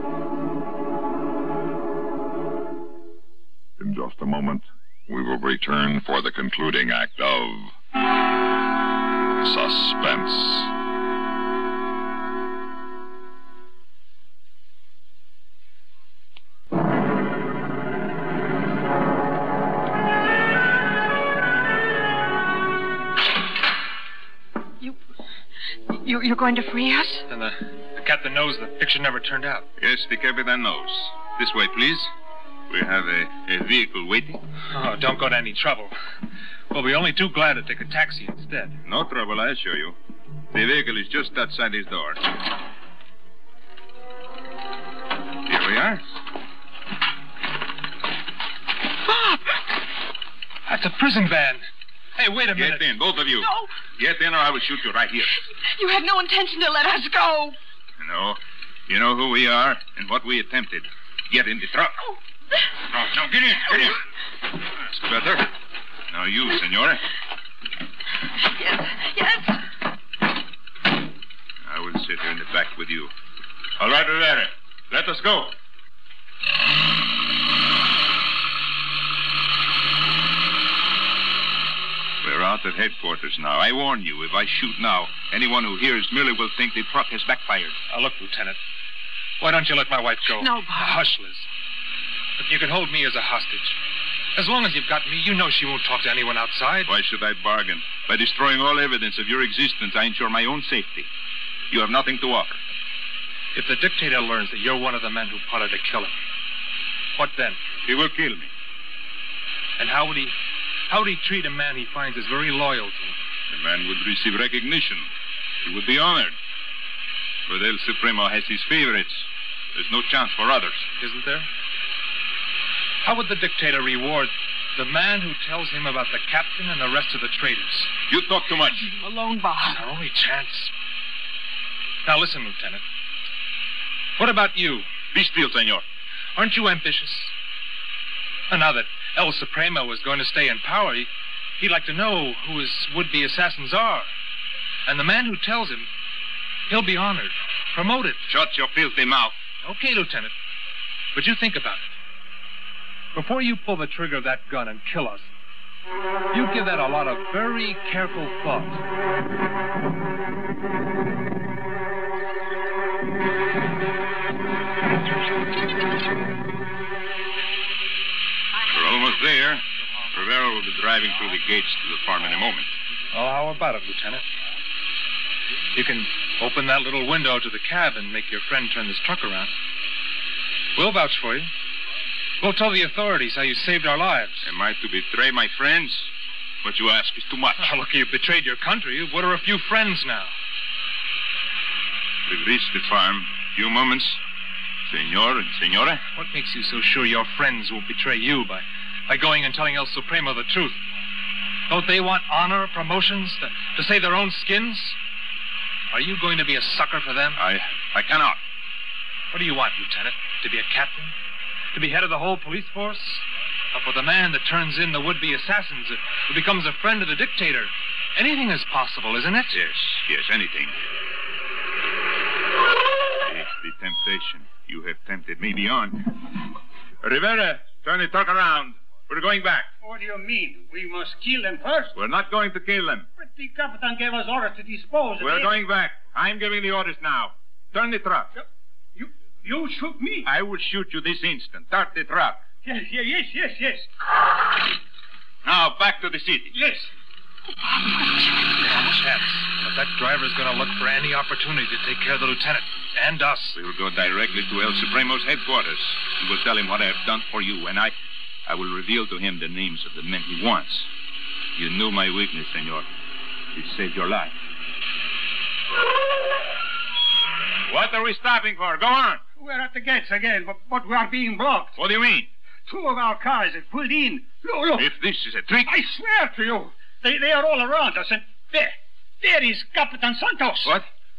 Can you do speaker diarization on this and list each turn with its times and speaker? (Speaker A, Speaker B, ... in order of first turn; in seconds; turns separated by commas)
Speaker A: 3.8-7.8, Speaker A: 9.4-10.7, Speaker B: 25.9-27.3, Speaker C: 27.3-29.7, Speaker D: 29.8-32.1, Speaker D: 32.7-34.4, Speaker C: 34.7-35.9, Speaker C: 36.7-38.8, Speaker D: 38.9-40.0, Speaker D: 40.5-42.2, Speaker D: 45.5-46.0, Speaker B: 49.0-49.6, Speaker C: 50.7-51.6, Speaker C: 52.2-52.9, Speaker D: 52.5-55.3, Speaker B: 53.4-53.8, Speaker B: 55.6-57.6, Speaker D: 58.0-62.0, Speaker D: 62.9-64.0, Speaker D: 64.8-65.5, Speaker D: 66.1-67.0, Speaker B: 68.4-69.6, Speaker D: 71.6-73.1, Speaker D: 73.8-75.5, Speaker D: 82.2-87.8, Speaker C: 87.9-88.6, Speaker C: 89.4-91.5, Speaker B: 90.3-91.0, Speaker C: 92.4-93.8, Speaker C: 94.3-96.9, Speaker D: 96.9-101.1, Speaker D: 101.7-102.6, Speaker C: 103.5-106.2, Speaker C: 107.2-107.6, Speaker D: 107.8-108.5, Speaker C: 109.8-110.3, Speaker C: 110.9-113.2, Speaker D: 113.5-115.1, Speaker D: 115.6-116.3, Speaker D: 117.5-120.9, Speaker C: 121.0-121.5, Speaker C: 123.0-127.9, Speaker D: 128.1-128.9, Speaker B: 128.8-129.8, Speaker C: 129.6-130.7, Speaker C: 132.0-132.8, Speaker C: 134.2-134.9, Speaker D: 135.1-135.8, Speaker C: 136.4-137.3, Speaker C: 138.5-144.1, Speaker C: 144.9-145.9, Speaker C: 146.7-148.2, Speaker D: 148.3-149.4, Speaker C: 149.6-150.3, Speaker C: 151.1-151.9, Speaker C: 153.1-155.3, Speaker C: 156.3-158.8, Speaker D: 168.7-172.7, Speaker C: 173.1-174.3, Speaker C: 175.7-179.5, Speaker C: 180.7-181.5, Speaker C: 182.4-184.5, Speaker D: 184.4-186.1, Speaker D: 186.6-187.7, Speaker C: 187.6-190.3, Speaker D: 192.2-194.2, Speaker D: 194.9-196.0, Speaker C: 196.1-200.8, Speaker C: 201.7-205.0, Speaker C: 205.9-207.4, Speaker D: 207.4-208.4, Speaker C: 209.3-211.1, Speaker C: 211.7-219.6, Speaker D: 219.5-220.7, Speaker D: 223.2-226.2, Speaker D: 227.0-229.7, Speaker E: 229.8-231.9, Speaker D: 231.9-233.1, Speaker E: 233.2-235.6, Speaker D: 235.2-238.3, Speaker E: 238.3-240.3, Speaker D: 240.2-242.4, Speaker E: 242.6-243.9, Speaker D: 245.4-246.5, Speaker E: 246.5-246.9, Speaker B: 247.6-249.0, Speaker C: 248.6-253.6, Speaker D: 253.5-260.9, Speaker D: 261.5-262.9, Speaker D: 263.5-264.3, Speaker D: 267.6-269.2, Speaker E: 269.4-271.7, Speaker D: 271.8-272.3, Speaker E: 272.7-274.9, Speaker D: 274.7-275.8, Speaker E: 275.6-280.7